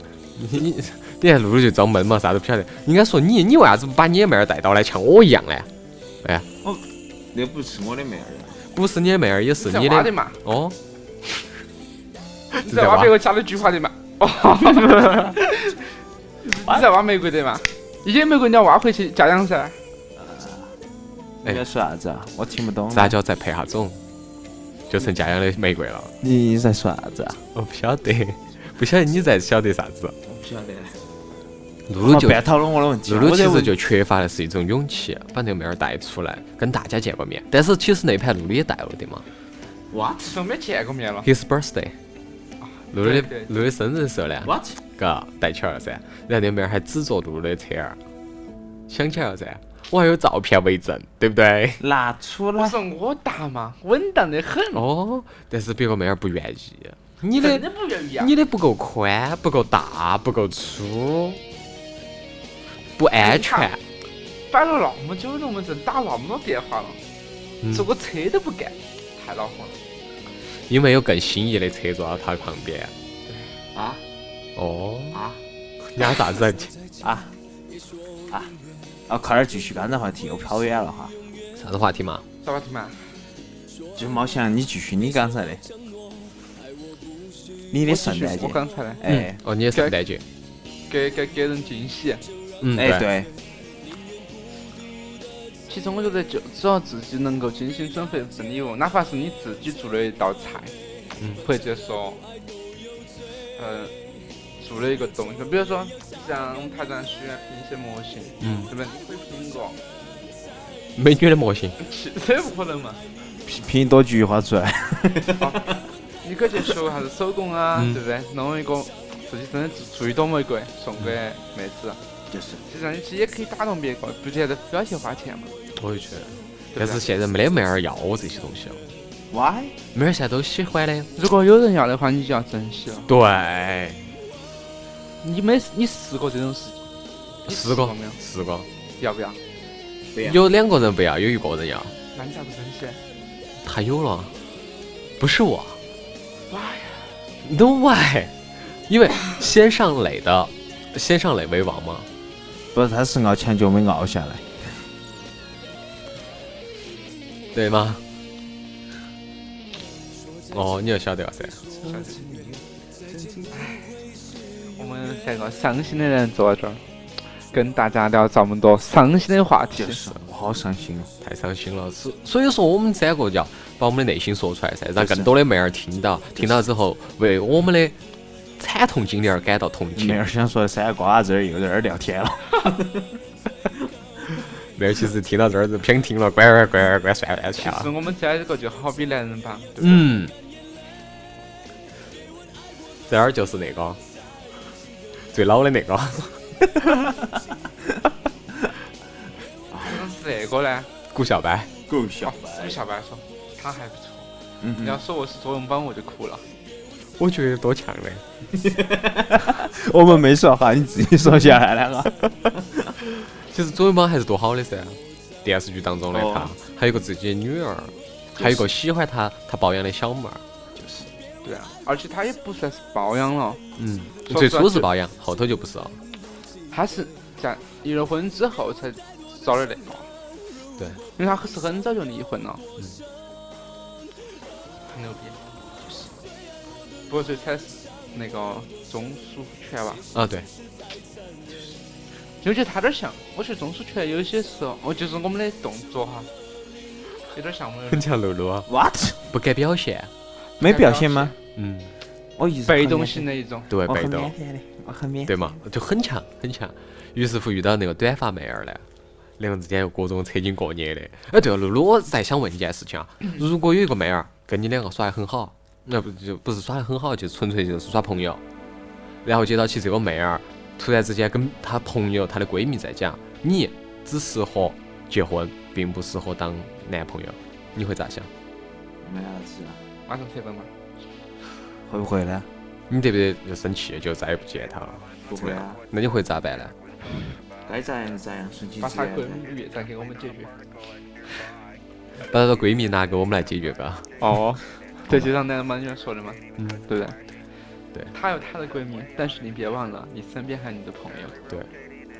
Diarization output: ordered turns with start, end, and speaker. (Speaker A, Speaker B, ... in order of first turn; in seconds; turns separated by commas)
Speaker A: 0.4-5.7, Speaker B: 6.6-8.6, Speaker A: 8.7-10.8, Speaker C: 9.6-10.4, Speaker A: 12.6-13.1, Speaker C: 12.6-15.6, Speaker C: 16.4-19.8, Speaker B: 20.1-20.7, Speaker B: 21.4-23.1, Speaker A: 22.9-24.0, Speaker A: 24.9-26.1, Speaker B: 26.2-27.4, Speaker A: 27.6-30.1, Speaker B: 30.2-31.0, Speaker A: 31.9-32.4, Speaker B: 32.0-33.8, Speaker A: 33.1-39.2, Speaker B: 39.9-40.4, Speaker C: 40.3-41.3, Speaker A: 41.2-42.0, Speaker C: 42.6-43.5, Speaker A: 42.9-48.0, Speaker B: 44.4-44.8, Speaker A: 48.9-51.8, Speaker B: 51.8-52.8, Speaker C: 52.6-54.8, Speaker A: 54.7-57.6, Speaker C: 57.4-58.3, Speaker A: 58.2-61.4, Speaker A: 63.0-63.8, Speaker C: 63.2-63.7, Speaker C: 64.5-67.0, Speaker C: 67.7-69.8, Speaker A: 70.7-72.9, Speaker C: 73.3-73.5, Speaker B: 73.7-74.0, Speaker A: 74.6-75.2, Speaker B: 75.1-75.4, Speaker A: 76.0-76.7, Speaker B: 77.0-77.3, Speaker B: 79.1-81.1, Speaker A: 81.6-82.2, Speaker C: 82.4-83.1, Speaker B: 84.0-85.6, Speaker B: 87.7-89.4, Speaker C: 87.9-89.0, Speaker A: 89.1-90.2, Speaker C: 90.9-92.2, Speaker A: 92.6-93.1, Speaker B: 92.8-93.3, Speaker C: 95.7-100.8, Speaker C: 101.4-102.2, Speaker C: 103.6-103.9, Speaker C: 104.6-109.8, Speaker A: 108.4-108.7, Speaker A: 111.0-111.8, Speaker C: 111.8-113.0, Speaker B: 113.5-115.7, Speaker C: 115.4-115.6, Speaker C: 116.2-122.0, Speaker B: 122.3-122.6, Speaker C: 122.7-125.5, Speaker A: 125.8-128.8, Speaker C: 126.8-127.0, Speaker B: 129.3-129.8, Speaker A: 129.9-131.1, Speaker C: 131.2-133.1, Speaker A: 133.1-134.1, Speaker C: 135.2-136.8, Speaker C: 137.5-138.2, Speaker A: 137.5-138.7, Speaker C: 139.0-139.4, Speaker B: 140.1-140.4, Speaker A: 140.2-141.9, Speaker C: 142.1-143.0, Speaker A: 143.6-144.3, Speaker A: 145.2-145.8, Speaker C: 146.5-147.1, Speaker A: 147.4-148.3, Speaker A: 148.9-152.1, Speaker B: 152.7-154.7, Speaker A: 157.5-158.0, Speaker A: 160.5-161.7, Speaker C: 161.9-162.6, Speaker B: 163.1-163.5, Speaker C: 163.5-163.9, Speaker C: 164.8-166.8, Speaker C: 167.5-170.0, Speaker B: 169.8-171.1, Speaker A: 171.2-178.0, Speaker B: 175.0-175.3, Speaker A: 178.6-180.2, Speaker B: 180.0-183.1, Speaker A: 184.8-187.9, Speaker C: 187.6-190.1, Speaker A: 189.8-190.3, Speaker A: 193.1-194.0, Speaker A: 195.2-196.4, Speaker B: 196.8-197.4, Speaker B: 199.7-200.0, Speaker C: 199.8-200.9, Speaker A: 201.1-201.7, Speaker B: 201.9-202.8, Speaker C: 202.2-204.3, Speaker B: 204.6-205.0, Speaker C: 204.8-206.4, Speaker A: 207.2-208.2, Speaker B: 208.6-212.9, Speaker A: 213.1-220.4, Speaker B: 216.1-216.5, Speaker B: 218.4-218.7, Speaker B: 220.8-221.1, Speaker C: 221.4-223.6, Speaker A: 223.8-226.0, Speaker C: 224.2-224.9, Speaker C: 226.7-230.1, Speaker C: 231.2-232.6, Speaker C: 234.9-235.4, Speaker C: 237.1-240.0, Speaker A: 240.1-240.5, Speaker C: 242.4-246.3, Speaker C: 247.3-248.1, Speaker A: 247.9-248.7, Speaker B: 248.7-249.2, Speaker A: 249.3-250.1, Speaker B: 250.6-251.3, Speaker C: 250.6-251.3, Speaker A: 251.6-251.9, Speaker B: 252.4-253.3, Speaker C: 252.7-253.7, Speaker A: 253.7-254.3, Speaker B: 253.9-255.5, Speaker A: 255.3-258.8, Speaker A: 259.4-268.4, Speaker A: 269.2-278.3, Speaker B: 279.0-279.8, Speaker C: 280.1-280.7, Speaker B: 281.9-282.5, Speaker A: 282.9-286.7, Speaker B: 285.3-285.8, Speaker B: 287.6-289.4, Speaker C: 288.8-290.5, Speaker A: 292.3-294.2, Speaker C: 294.2-297.2, Speaker A: 296.6-296.8, Speaker C: 298.1-301.4